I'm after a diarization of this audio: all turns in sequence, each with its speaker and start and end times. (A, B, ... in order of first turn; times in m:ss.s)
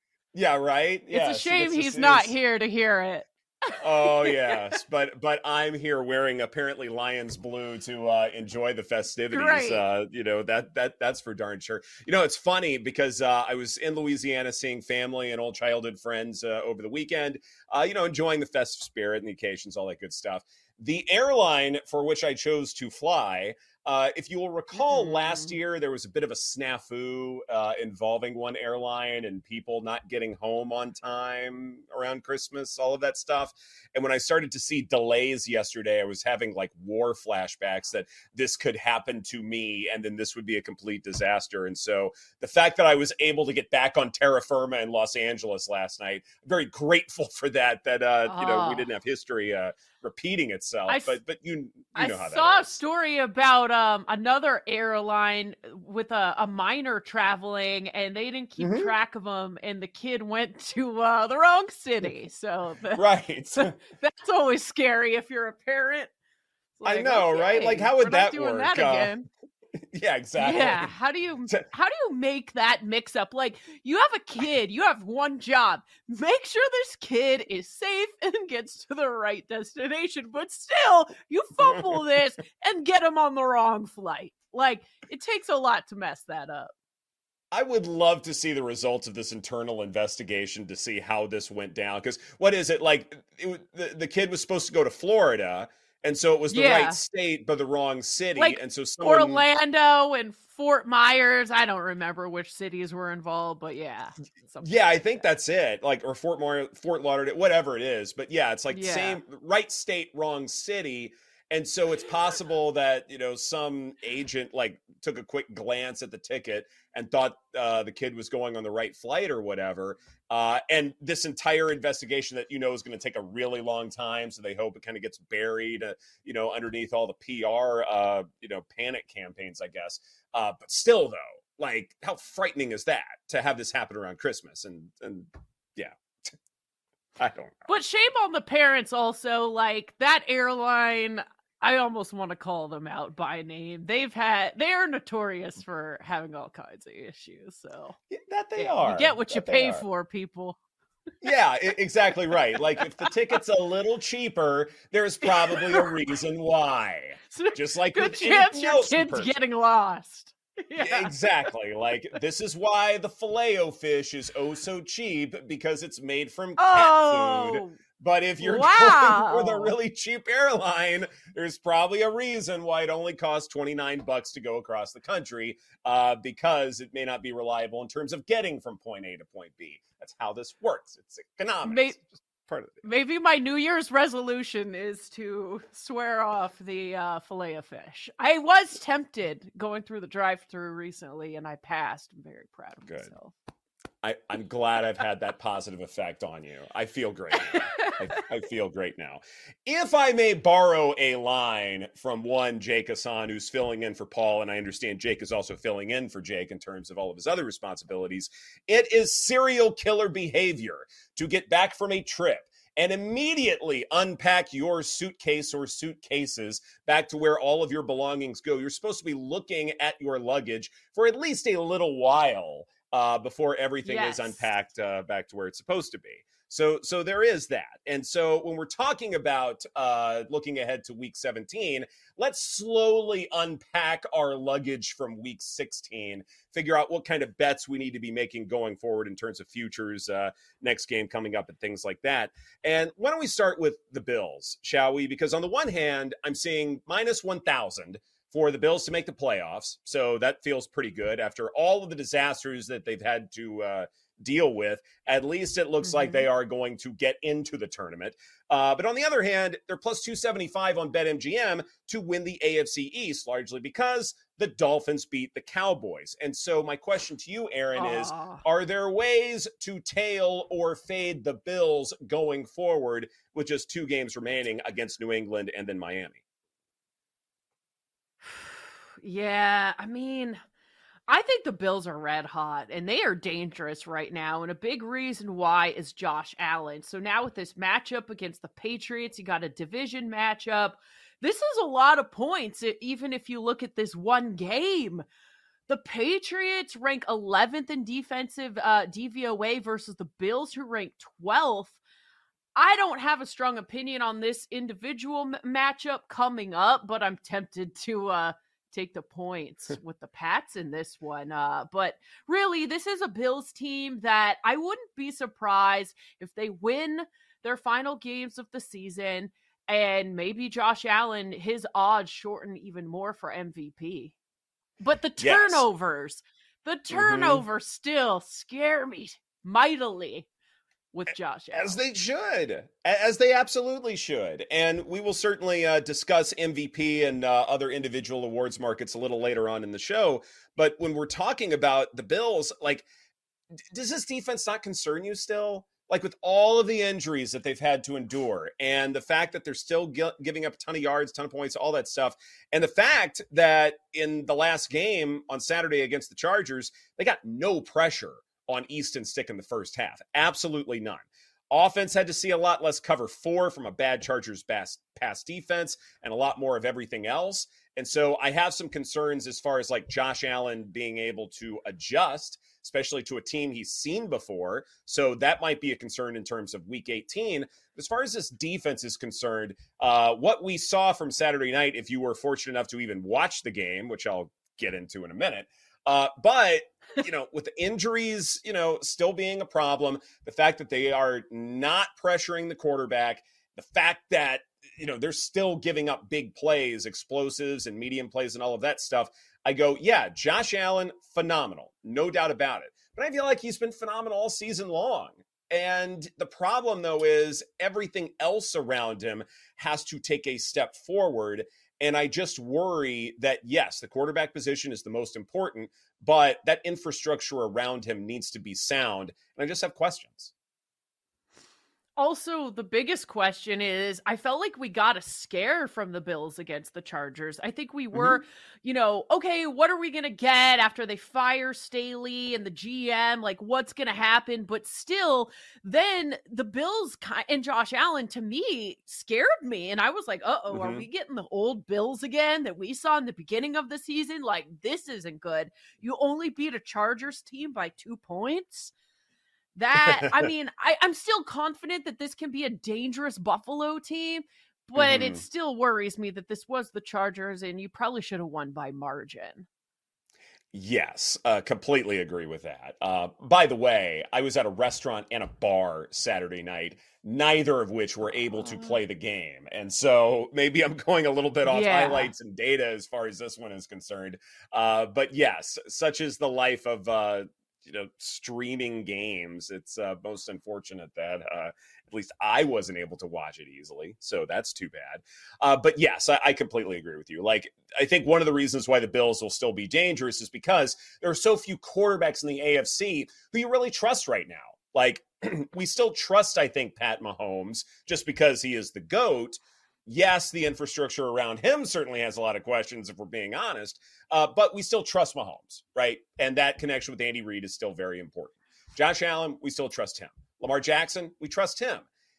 0:00.3-0:02.3 A
0:01.1-0:04.7 B
0:03.8-0:52.8 A
0:09.3-0:09.9 B
0:24.8-0:25.6 B
0:48.2-0:48.9 B
0:50.9-0:51.2 B
0:51.9-1:03.0 B
0:58.6-0:58.9 A
1:02.9-1:03.8 A
1:03.6-1:06.1 B
1:06.8-1:09.3 B
1:06.8-1:09.1 A
1:09.8-1:10.9 A
1:10.4-1:26.7 B
1:21.6-1:22.0 A
1:27.5-1:39.4 A
1:36.5-1:37.0 B
1:38.4-1:45.3 B
1:44.6-2:16.0 A
1:48.7-1:49.2 B
2:17.2-2:17.7 A
2:17.7-2:28.0 B
2:28.1-2:29.8 A
2:28.6-2:30.6 B
2:31.2-2:39.3 A
2:35.4-2:35.9 B
2:37.3-2:41.2 B
2:40.8-3:02.8 A
2:46.6-2:47.8 B
2:48.4-2:49.7 B
3:01.6-3:02.0 B
3:02.8-3:13.3 B
3:14.0-4:36.2 A
3:43.8-3:44.5 B
4:15.8-4:16.2 B
4:27.8-4:28.4 B
4:38.3-4:40.4 B
4:41.1-4:55.0 B
4:55.7-5:01.8 B
5:02.6-5:24.1 B
5:24.8-5:30.3 B
5:25.2-5:25.6 A
5:26.9-5:27.4 A
5:30.9-5:31.8 B
5:31.5-5:42.9 A
5:43.7-7:00.3 A
7:02.0-7:28.7 B
7:07.9-7:08.2 A
7:20.5-7:20.8 A
7:29.6-7:39.5 B
7:29.8-7:30.2 A
7:34.8-7:35.2 A
7:40.5-8:31.9 A
7:51.5-7:52.1 B